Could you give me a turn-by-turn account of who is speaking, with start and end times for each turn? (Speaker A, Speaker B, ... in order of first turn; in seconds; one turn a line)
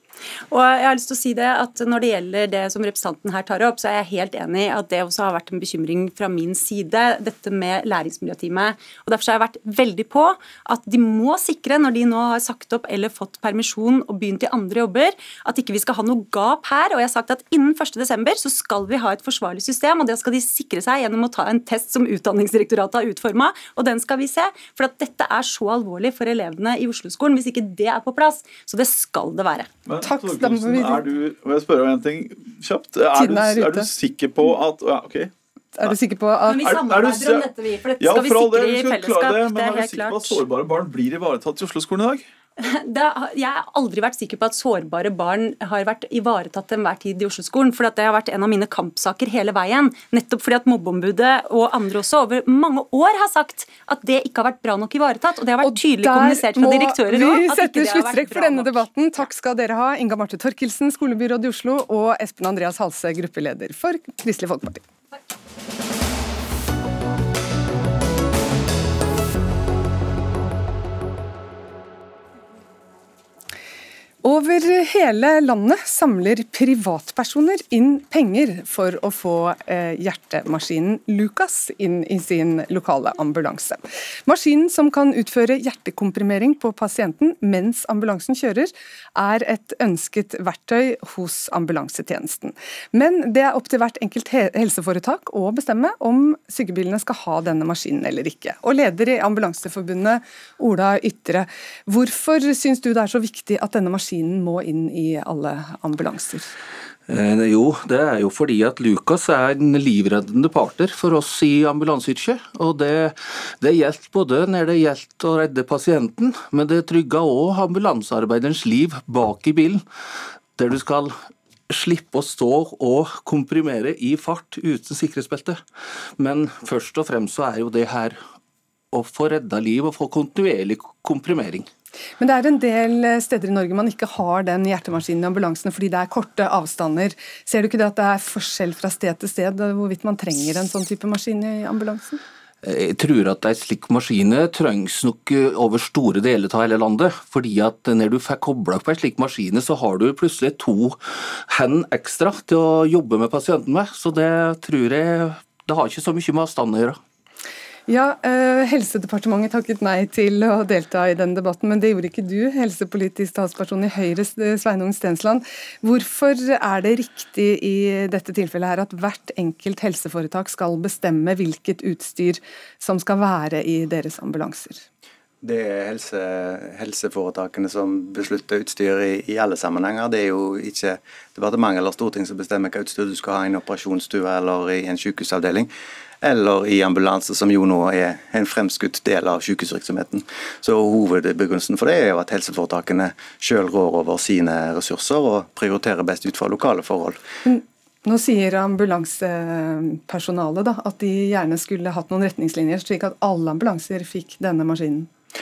Speaker A: 0.5-29.7
Speaker B: 29.9-35.9
Speaker C: 30.0-31.1
Speaker C: 33.1-33.9
Speaker C: 35.7-36.7
Speaker A: 36.5-40.4
Speaker B: 36.6-42.2
Speaker A: 42.6-58.8
Speaker C: 55.6-64.8
Speaker C: 74.2-106.5
Speaker D: 107.1-119.8
Speaker D: 120.5-121.1
Speaker D: 121.7-125.6
Speaker D: 126.2-128.2
Speaker D: 128.9-131.7
Speaker C: 132.2-142.2
Speaker D: 142.6-157.0
Speaker C: 157.9-174.8
Speaker E: 175.4-185.7
Speaker E: 186.2-197.2
Speaker C: 197.4-205.1